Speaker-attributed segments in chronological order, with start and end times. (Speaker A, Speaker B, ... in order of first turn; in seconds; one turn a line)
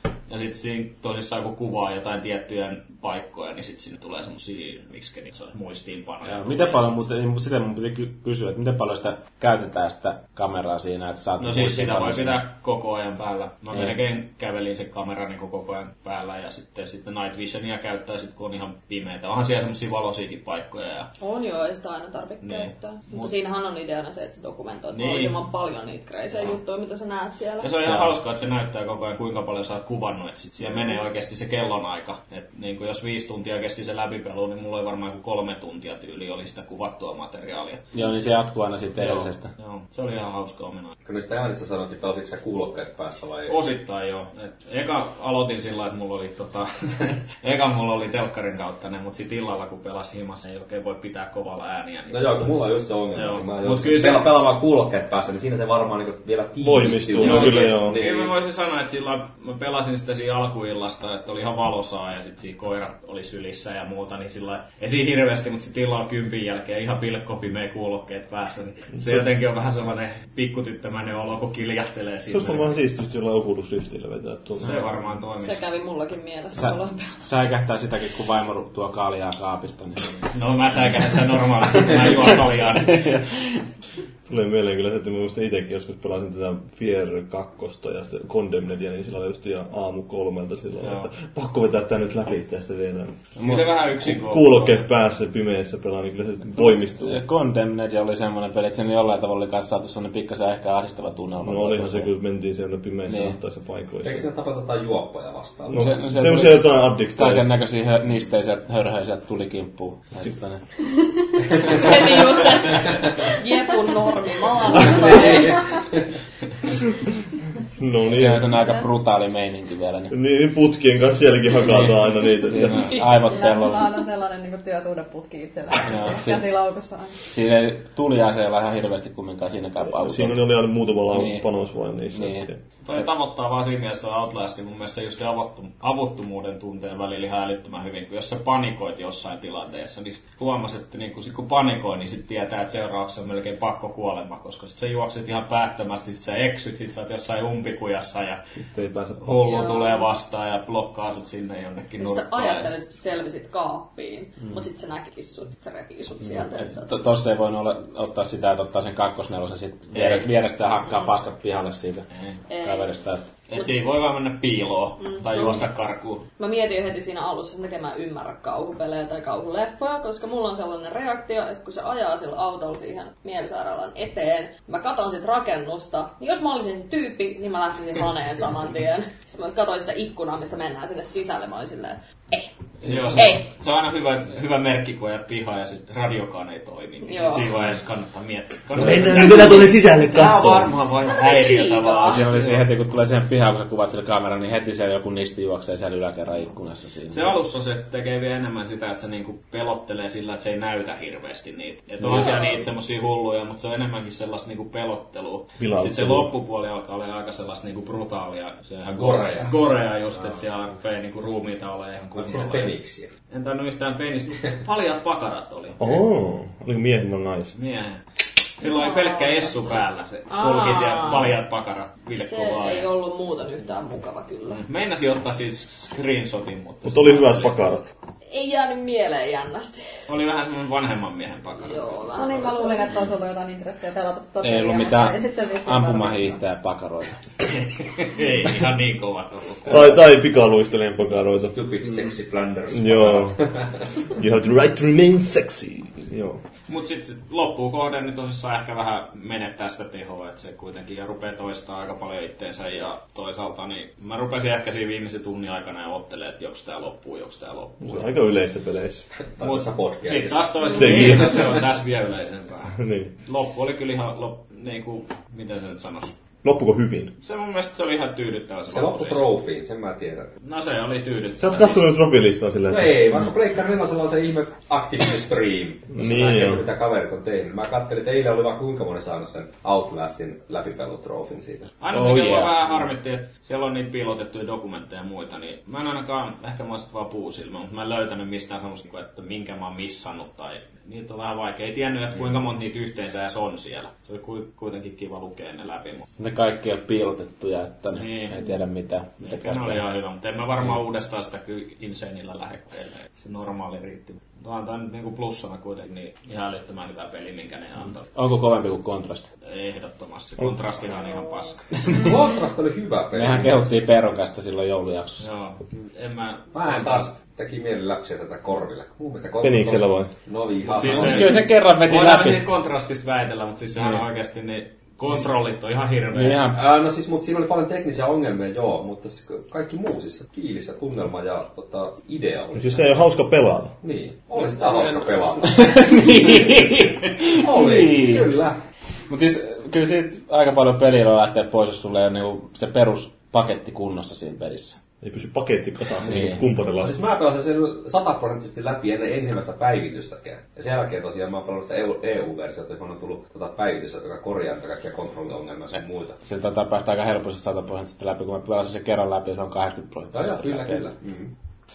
Speaker A: 0.3-7.0
Speaker B: 6.2-12.4
Speaker A: 11.4-21.1
Speaker C: 21.2-27.8
Speaker A: 22.4-23.3
Speaker A: 24.9-25.4
Speaker A: 27.6-37.9
Speaker C: 30.6-31.0
Speaker B: 37.9-39.5
Speaker A: 39.0-41.0
Speaker D: 41.0-43.6
Speaker A: 43.5-52.5
Speaker D: 52.1-58.3
Speaker A: 53.1-54.4
Speaker E: 56.6-58.0
Speaker A: 57.1-72.7
Speaker E: 72.3-74.8
Speaker A: 74.6-75.6
Speaker C: 75.4-77.3
Speaker B: 76.5-80.1
Speaker A: 80.3-83.2
Speaker B: 82.9-83.6
Speaker E: 84.3-97.2
Speaker A: 90.8-91.1
Speaker A: 93.4-94.9
Speaker B: 96.5-102.1
Speaker E: 101.4-104.3
Speaker B: 103.1-103.4
Speaker D: 104.0-105.9
Speaker E: 105.7-107.5
Speaker B: 105.7-110.6
Speaker C: 111.5-115.9
Speaker D: 114.9-115.6
Speaker E: 117.8-118.6
Speaker B: 118.1-120.1
Speaker E: 120.1-123.0
Speaker B: 121.7-124.0
Speaker F: 123.0-127.2
Speaker B: 125.9-126.5
Speaker B: 127.3-130.6
Speaker E: 129.9-132.6
Speaker B: 131.1-131.5
Speaker B: 132.1-133.0
Speaker A: 132.8-148.4
Speaker E: 148.7-149.7
Speaker A: 149.2-152.7
Speaker C: 149.5-150.1
Speaker C: 152.0-156.9
Speaker B: 156.2-162.1
Speaker A: 159.9-160.3
Speaker A: 162.1-162.4
Speaker C: 162.5-162.9
Speaker B: 162.6-163.3
Speaker A: 163.5-166.2
Speaker C: 165.0-165.7
Speaker C: 166.4-182.6
Speaker A: 182.8-192.7
Speaker C: 183.1-183.5
Speaker C: 187.0-187.6
Speaker E: 188.8-190.7
Speaker C: 191.0-192.2
Speaker B: 192.1-197.4
Speaker A: 197.1-212.8
Speaker C: 202.1-202.6
Speaker E: 205.6-206.3
Speaker D: 208.9-209.6
Speaker D: 212.2-213.1
Speaker A: 213.3-215.9
Speaker E: 215.8-217.5
Speaker A: 217.5-218.0
Speaker A: 218.6-222.9
Speaker C: 218.6-221.4
Speaker C: 222.2-224.7
Speaker A: 224.5-227.6
Speaker E: 226.8-227.9
Speaker C: 228.3-229.9
Speaker A: 230.1-231.8
Speaker C: 231.6-233.1
Speaker F: 232.2-236.4
Speaker B: 234.4-237.2
Speaker A: 237.4-239.9
Speaker E: 239.7-241.6
Speaker D: 241.5-243.8
Speaker E: 242.7-243.4
Speaker E: 244.2-246.4
Speaker A: 246.7-258.1
Speaker E: 257.8-259.1
Speaker D: 259.3-260.5
Speaker A: 259.4-266.1
Speaker C: 260.7-261.0
Speaker E: 260.7-261.3
Speaker D: 261.0-261.6
Speaker E: 262.7-263.1
Speaker E: 266.4-267.1
Speaker A: 267.2-269.3
Speaker D: 268.7-270.3
Speaker A: 270.4-271.9
Speaker E: 271.4-273.1
Speaker D: 272.7-281.7
Speaker E: 275.9-276.6
Speaker A: 281.8-296.1
Speaker B: 281.9-282.7
Speaker B: 296.2-299.8
Speaker A: 297.9-298.4
Speaker A: 299.2-308.1
Speaker B: 308.1-309.2
Speaker A: 309.5-312.0
Speaker D: 311.9-313.8
Speaker B: 313.1-315.3
Speaker A: 315.2-317.1
Speaker D: 316.5-321.4
Speaker E: 319.4-320.1
Speaker A: 320.7-326.5
Speaker B: 320.8-322.5
Speaker B: 323.8-324.0
Speaker B: 326.1-326.6
Speaker D: 326.6-333.1
Speaker E: 332.6-333.8
Speaker D: 333.8-336.5
Speaker B: 335.4-338.3
Speaker D: 337.3-338.6
Speaker B: 339.1-344.8
Speaker E: 345.0-347.0
Speaker B: 346.1-346.4
Speaker D: 346.8-356.2
Speaker B: 356.2-360.8
Speaker D: 360.1-361.3